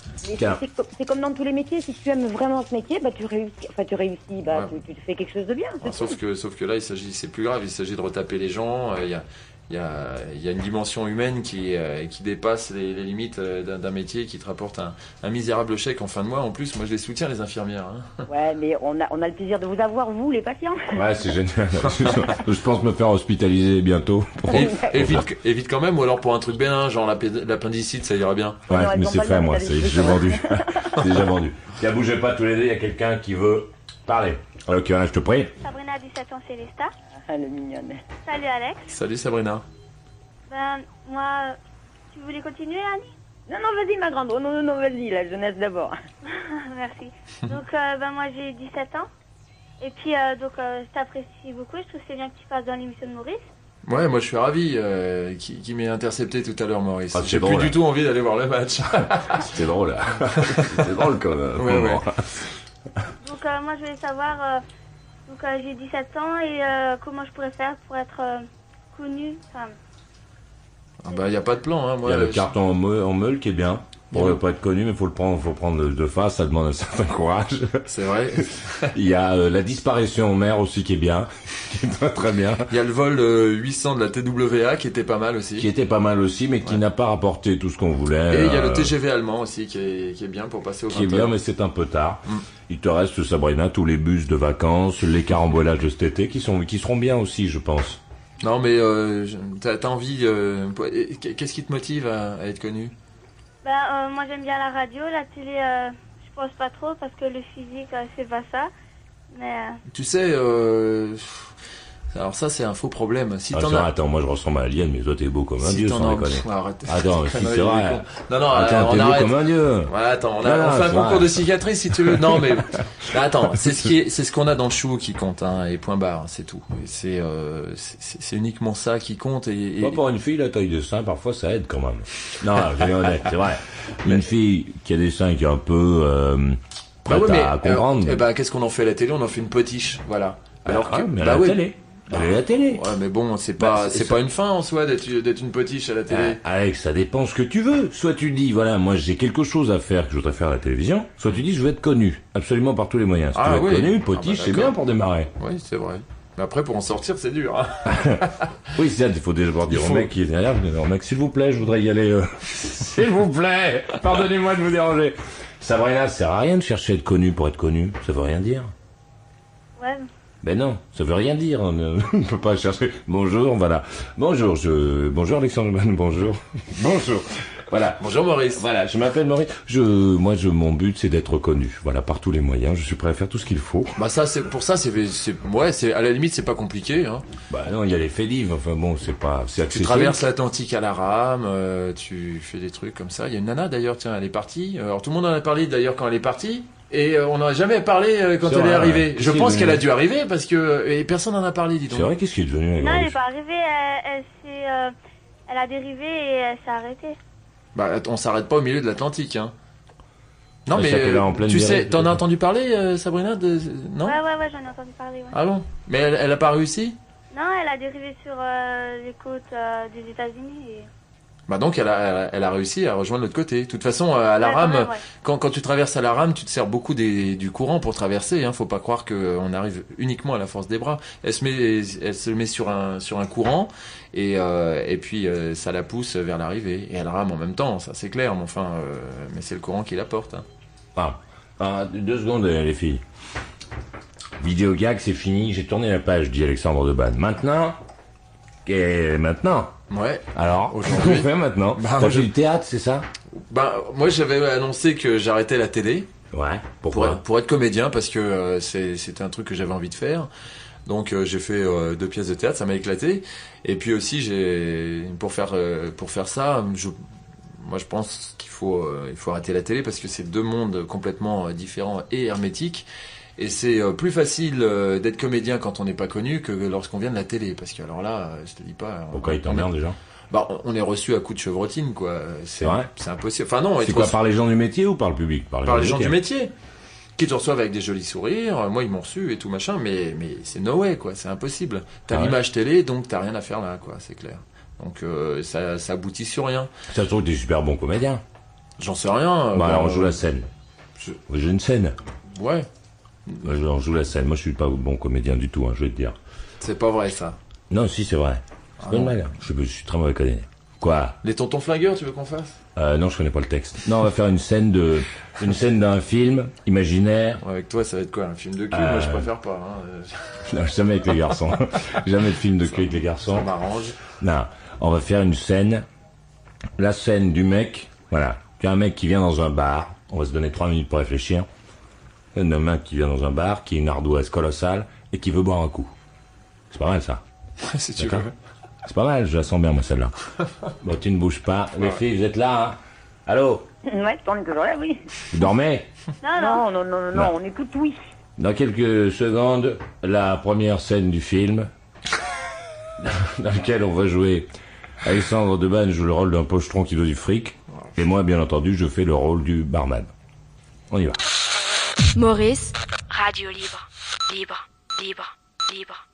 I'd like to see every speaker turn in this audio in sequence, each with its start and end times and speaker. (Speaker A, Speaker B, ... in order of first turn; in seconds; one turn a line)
Speaker A: 0.2-6.2
Speaker B: 5.8-18.2
Speaker A: 18.3-20.9
Speaker C: 20.9-25.2
Speaker A: 24.5-24.9
Speaker B: 24.5-28.6
Speaker A: 28.7-30.9
Speaker C: 28.7-35.5
Speaker D: 35.6-36.9
Speaker A: 37.3-38.0
Speaker D: 38.2-38.9
Speaker B: 38.9-39.6
Speaker D: 40.5-41.6
Speaker D: 42.1-43.1
Speaker A: 43.5-45.9
Speaker D: 46.4-49.1
Speaker D: 49.8-53.4
Speaker B: 53.9-59.4
Speaker C: 57.1-57.8
Speaker C: 59.4-62.2
Speaker B: 60.4-60.9
Speaker B: 61.5-62.0
Speaker D: 63.2-64.6
Speaker D: 65.3-69.7
Speaker B: 71.0-72.5
Speaker C: 72.0-77.8
Speaker B: 74.1-74.4
Speaker B: 77.8-78.9
Speaker C: 78.9-82.7
Speaker B: 82.7-85.7
Speaker C: 85.6-88.9
Speaker B: 88.3-91.3
Speaker C: 90.9-98.0
Speaker B: 98.4-102.9
Speaker D: 103.6-108.7
Speaker D: 109.3-109.8
Speaker B: 109.9-111.5
Speaker B: 112.1-113.9
Speaker C: 113.5-121.4
Speaker B: 115.6-130.0
Speaker C: 129.8-138.2
Speaker B: 137.1-146.4
Speaker C: 140.6-142.8
Speaker C: 143.6-144.2
Speaker C: 146.1-155.3
Speaker B: 153.3-154.8
Speaker B: 155.4-158.5
Speaker C: 157.9-158.2
Speaker C: 158.7-168.7
Speaker B: 159.7-160.1
Speaker D: 169.8-170.1
Speaker C: 170.4-183.9
Speaker B: 178.0-178.6
Speaker B: 184.0-187.2
Speaker C: 187.5-190.2
Speaker B: 189.7-202.1
Speaker C: 198.4-199.8
Speaker C: 201.9-203.2
Speaker D: 202.8-204.9
Speaker D: 205.5-207.2
Speaker B: 207.7-209.5
Speaker B: 210.7-214.2
Speaker C: 210.7-212.2
Speaker D: 214.0-215.3
Speaker B: 215.3-217.0
Speaker D: 217.3-220.9
Speaker B: 221.5-240.4
Speaker D: 224.4-225.0
Speaker C: 240.9-243.0
Speaker C: 244.4-247.8
Speaker C: 248.7-249.7
Speaker B: 249.9-252.3
Speaker C: 250.3-253.1
Speaker B: 253.3-256.1
Speaker C: 256.3-257.2
Speaker B: 256.9-260.3
Speaker B: 260.9-266.9
Speaker B: 267.6-272.9
Speaker B: 273.4-279.7
Speaker C: 279.1-279.9
Speaker B: 280.3-284.1
Speaker C: 282.6-282.9
Speaker C: 283.8-286.2
Speaker B: 285.6-286.5
Speaker B: 287.2-296.7
Speaker C: 292.1-292.4
Speaker C: 296.9-298.2
Speaker B: 298.8-300.2
Speaker C: 299.5-300.5
Speaker C: 301.3-301.9
Speaker B: 302.3-302.7
Speaker C: 303.4-306.1
Speaker B: 306.6-307.4
Speaker C: 307.7-311.1
Speaker B: 308.8-309.2
Speaker B: 311.2-312.6
Speaker C: 312.8-317.4
Speaker B: 317.4-320.4
Speaker C: 318.7-319.3
Speaker C: 320.5-323.5
Speaker B: 322.6-324.0
Speaker C: 324.2-325.8
Speaker C: 326.8-331.5
Speaker C: 332.3-335.9
Speaker C: 336.7-337.2
Speaker B: 337.6-338.3
Speaker C: 338.0-338.2
Speaker C: 338.9-340.1
Speaker C: 340.8-343.6
Speaker A: 343.9-345.0
Speaker C: 345.3-345.9
Speaker D: 346.2-346.6
Speaker A: 346.4-347.9
Speaker C: 348.4-351.7
Speaker C: 353.0-354.5
Speaker C: 355.0-360.1
Speaker C: 360.9-361.2
Speaker E: 362.1-366.0